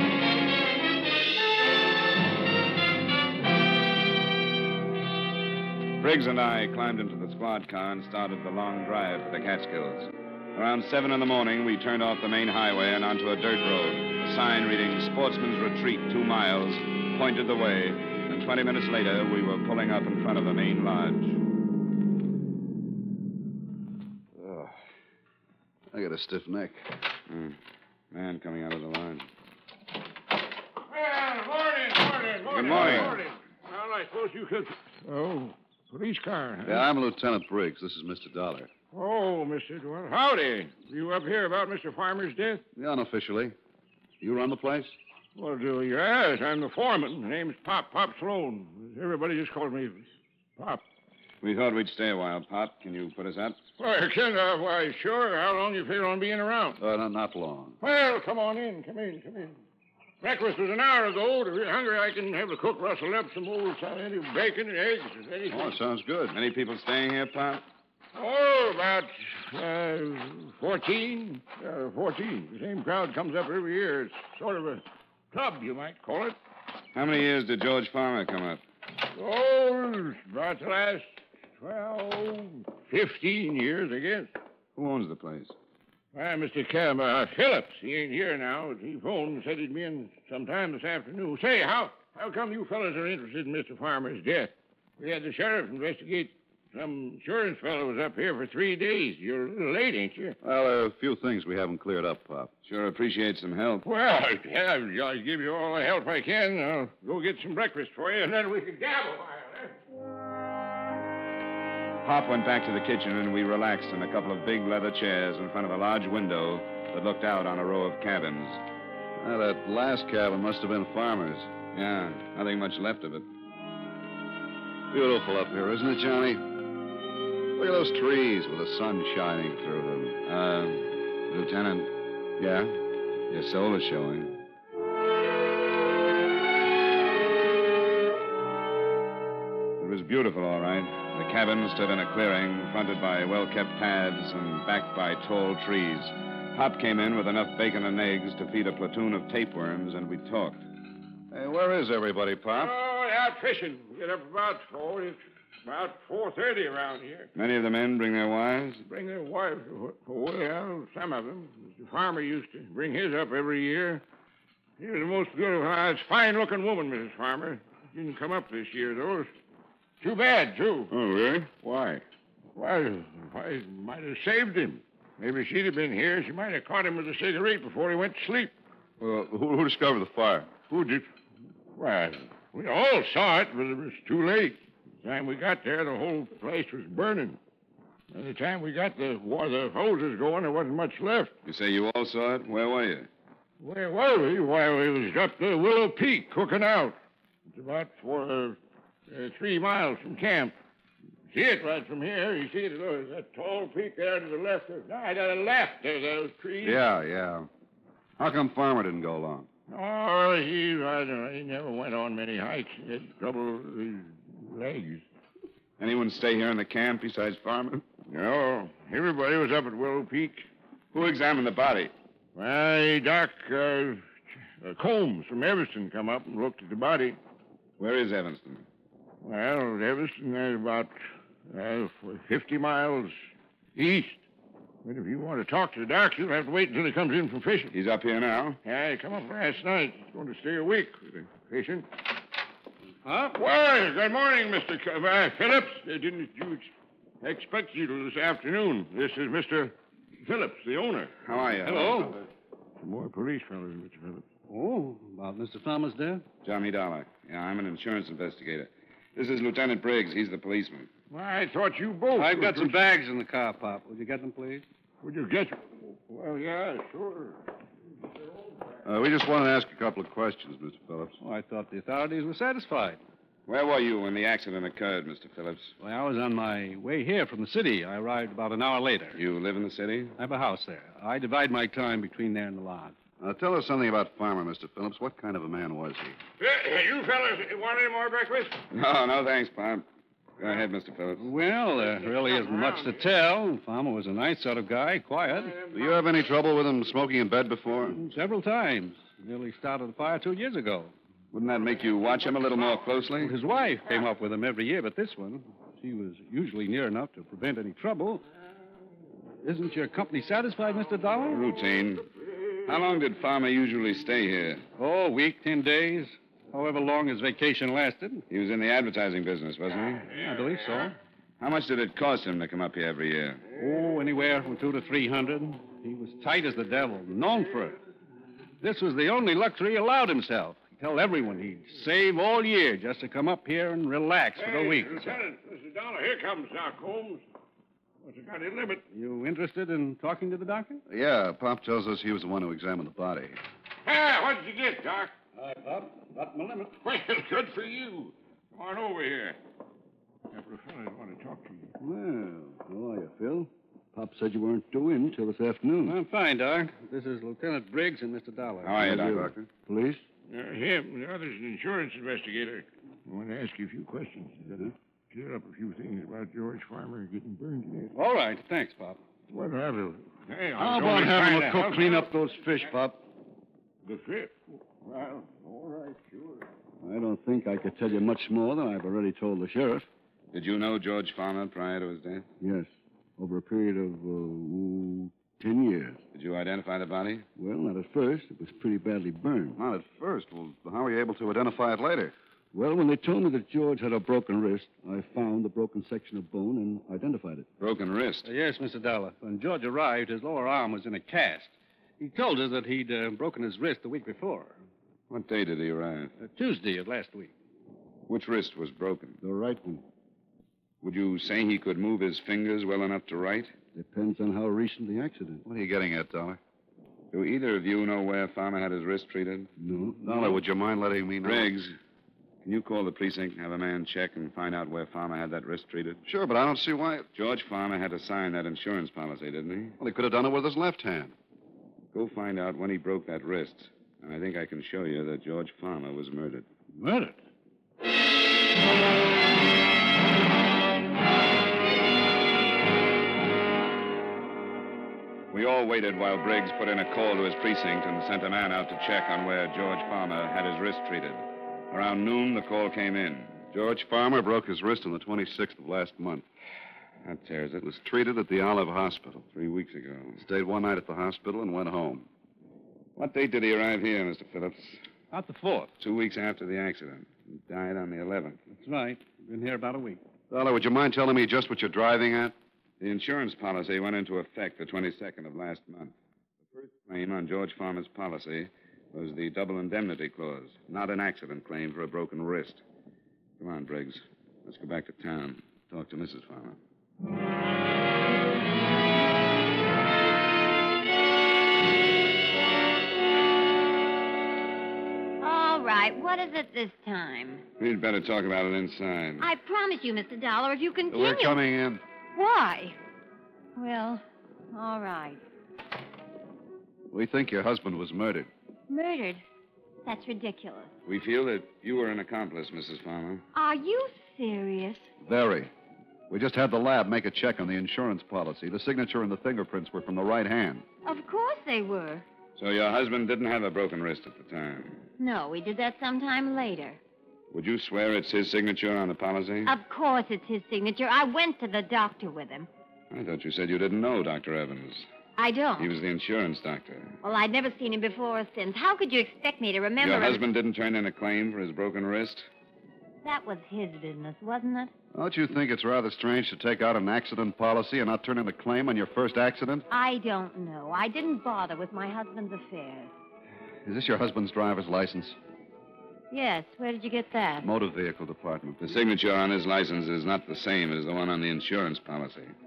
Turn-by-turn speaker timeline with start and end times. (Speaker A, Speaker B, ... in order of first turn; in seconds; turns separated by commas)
Speaker A: 6.0-21.4, Speaker B: 24.4-24.7, Speaker B: 25.9-26.8, Speaker A: 27.3-27.6, Speaker A: 28.1-29.3, Speaker C: 30.8-36.9, Speaker A: 32.5-33.2, Speaker B: 32.7-33.1, Speaker B: 36.6-38.7, Speaker C: 38.9-42.6, Speaker B: 42.8-43.5, Speaker B: 44.2-45.0, Speaker C: 45.4-50.0, Speaker C: 50.6-50.8, Speaker A: 51.4-53.6, Speaker C: 53.8-56.8, Speaker B: 56.8-57.8, Speaker C: 57.8-59.6, Speaker C: 60.2-65.7, Speaker B: 65.5-66.3, Speaker A: 66.3-67.6, Speaker C: 68.1-76.4, Speaker A: 76.9-78.6, Speaker C: 79.1-84.3, Speaker A: 84.8-85.5, Speaker C: 86.1-100.4, Speaker B: 100.4-102.5, Speaker A: 102.6-103.9, Speaker C: 103.8-109.8, Speaker A: 112.0-118.6, Speaker B: 119.2-121.5, Speaker A: 121.7-123.3, Speaker B: 124.9-126.4, Speaker B: 127.6-130.2, Speaker A: 130.2-132.7, Speaker A: 133.3-134.4, Speaker A: 139.8-150.6, Speaker B: 151.3-152.7, Speaker C: 152.5-157.3, Speaker A: 157.3-158.8, Speaker C: 158.8-164.0, Speaker C: 164.8-169.3, Speaker C: 170.0-170.9, Speaker A: 170.9-171.5, Speaker C: 171.6-172.0, Speaker C: 172.5-178.5, Speaker B: 179.0-180.5, Speaker C: 180.7-181.1, Speaker C: 181.7-187.4, Speaker C: 188.1-191.3, Speaker A: 191.4-193.1, Speaker C: 193.6-197.0, Speaker C: 197.5-198.6, Speaker C: 199.1-200.6, Speaker C: 201.3-206.8, Speaker B: 206.6-207.5, Speaker B: 208.2-209.5, Speaker C: 209.7-215.0, Speaker A: 215.8-217.8, Speaker C: 218.1-220.5, Speaker A: 220.9-221.9, Speaker C: 222.3-224.1, Speaker C: 224.6-227.2, Speaker A: 227.8-228.6, Speaker C: 229.2-230.9, Speaker C: 231.5-233.1, Speaker C: 233.8-234.2, Speaker C: 234.8-237.7, Speaker A: 237.7-238.6, Speaker C: 238.6-241.9, Speaker D: 243.0-243.4, Speaker C: 243.4-246.7, Speaker C: 247.2-252.3, Speaker A: 251.2-252.1, Speaker D: 251.7-252.1, Speaker C: 252.8-254.3, Speaker D: 254.5-256.2, Speaker A: 256.4-260.9, Speaker C: 261.1-262.8, Speaker D: 262.1-264.6, Speaker C: 265.0-267.4, Speaker B: 268.9-271.1, Speaker D: 271.2-273.0, Speaker A: 273.5-275.7, Speaker D: 275.8-279.2, Speaker A: 279.1-280.1, Speaker D: 280.2-282.9, Speaker B: 283.2-286.2, Speaker C: 286.4-288.6, Speaker A: 288.7-289.9, Speaker A: 290.4-291.3, Speaker D: 291.2-295.5, Speaker C: 292.2-292.9, Speaker B: 295.7-298.0, Speaker D: 297.9-300.9, Speaker A: 301.3-303.3, Speaker D: 303.2-308.2, Speaker D: 309.4-311.4, Speaker A: 311.3-312.1, Speaker A: 312.6-314.6, Speaker D: 314.8-318.2, Speaker A: 318.3-320.1, Speaker D: 320.1-320.9, Speaker A: 321.4-323.4, Speaker D: 323.5-327.8, Speaker D: 328.6-335.1, Speaker C: 334.4-337.2, Speaker C: 338.0-338.8, Speaker D: 338.9-340.8, Speaker B: 340.9-343.4, Speaker C: 343.8-345.1, Speaker D: 345.4-346.2, Speaker C: 346.5-349.4, Speaker C: 350.3-351.7, Speaker E: 351.8-356.0, Speaker D: 355.9-358.8, Speaker A: 358.6-359.3, Speaker E: 358.8-360.0, Speaker B: 358.8-359.5, Speaker C: 360.3-367.9, Speaker D: 367.9-369.0, Speaker C: 369.3-372.0, Speaker B: 370.6-372.9, Speaker E: 371.1-372.4, Speaker C: 373.8-376.5, Speaker E: 376.8-379.9, Speaker A: 380.3-382.3, Speaker E: 382.4-386.0, Speaker A: 386.1-387.2, Speaker E: 387.4-389.6, Speaker B: 389.6-392.1, Speaker E: 392.5-397.5, Speaker A: 397.6-398.2, Speaker D: 398.2-404.6, Speaker A: 405.1-406.1, Speaker D: 406.2-407.3, Speaker A: 408.1-409.2, Speaker E: 409.2-409.8, Speaker A: 410.8-413.5, Speaker E: 413.7-415.4, Speaker B: 415.4-416.4, Speaker A: 417.1-419.5, Speaker E: 419.6-420.1, Speaker B: 419.9-421.5, Speaker A: 421.2-421.8, Speaker A: 422.4-426.0, Speaker B: 426.0-427.1, Speaker A: 427.1-429.8, Speaker B: 429.8-431.1, Speaker A: 431.9-436.5, Speaker D: 436.8-437.1, Speaker A: 445.3-453.5, Speaker B: 453.5-456.2, Speaker A: 457.0-457.6, Speaker B: 457.6-459.3, Speaker A: 459.3-460.2, Speaker B: 460.2-462.1, Speaker A: 463.0-464.8, Speaker D: 465.1-465.7, Speaker A: 465.8-468.4, Speaker D: 468.5-470.0, Speaker B: 470.3-472.3, Speaker A: 472.8-475.9, Speaker A: 476.5-482.6, Speaker A: 483.4-486.6, Speaker F: 495.2-497.4, Speaker A: 497.6-499.2, Speaker F: 499.2-501.4, Speaker B: 500.9-501.8, Speaker F: 502.1-502.8, Speaker F: 503.6-505.2, Speaker B: 506.9-508.3, Speaker F: 508.7-509.2, Speaker F: 509.8-510.7, Speaker A: 510.9-513.2, Speaker F: 513.3-514.9, Speaker B: 515.0-515.5, Speaker B: 516.1-520.6, Speaker F: 520.8-522.0, Speaker A: 522.4-524.8, Speaker F: 525.0-526.8, Speaker A: 527.3-529.5, Speaker F: 529.5-532.5, Speaker A: 532.9-534.9, Speaker F: 535.2-535.7, Speaker A: 535.6-537.0, Speaker F: 537.0-540.2, Speaker A: 539.8-542.3, Speaker F: 543.0-544.7, Speaker B: 544.9-549.7, Speaker F: 549.7-552.9, Speaker B: 553.6-555.2, Speaker F: 556.1-557.5, Speaker B: 557.4-558.8, Speaker A: 558.6-562.3